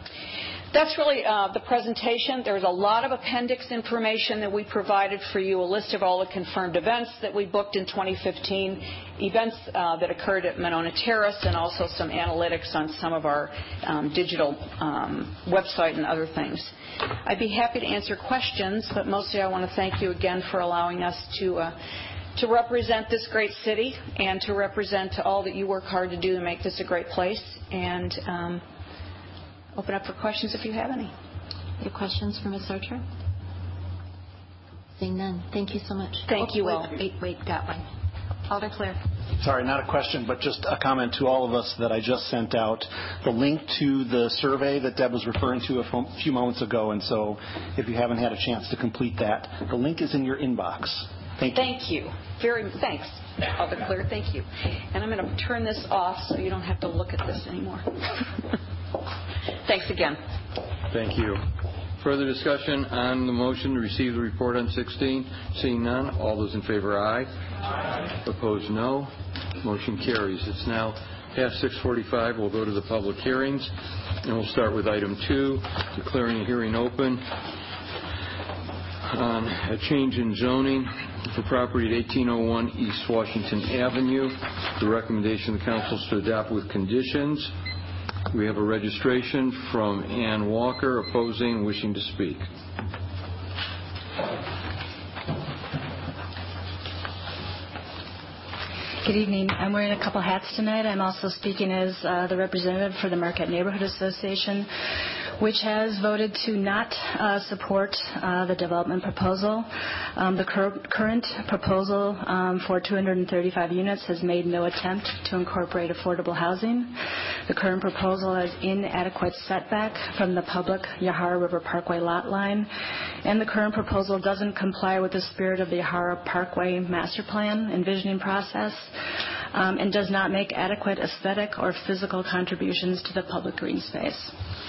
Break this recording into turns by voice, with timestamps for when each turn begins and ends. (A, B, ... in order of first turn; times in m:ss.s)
0:00.7-0:16.7 A
0:17.2-0:21.8 A
0:22.4-0:28.6 A
0:29.7-0:31.1 A
0:31.8-0:33.0 B
0:35.0-0:37.8 B
0:36.3-0:36.9 A
0:38.5-0:39.0 B
0:39.4-0:51.6 C
0:51.5-0:57.9 A
0:59.6-1:00.2 A
1:00.9-1:07.3 D
1:08.2-1:17.3 D
1:19.0-1:27.5 D
1:28.3-1:32.4 D
1:39.0-1:44.7 E
1:45.4-1:56.9 E
1:57.5-2:02.7 E
2:03.2-2:08.9 E
2:09.5-2:14.3 E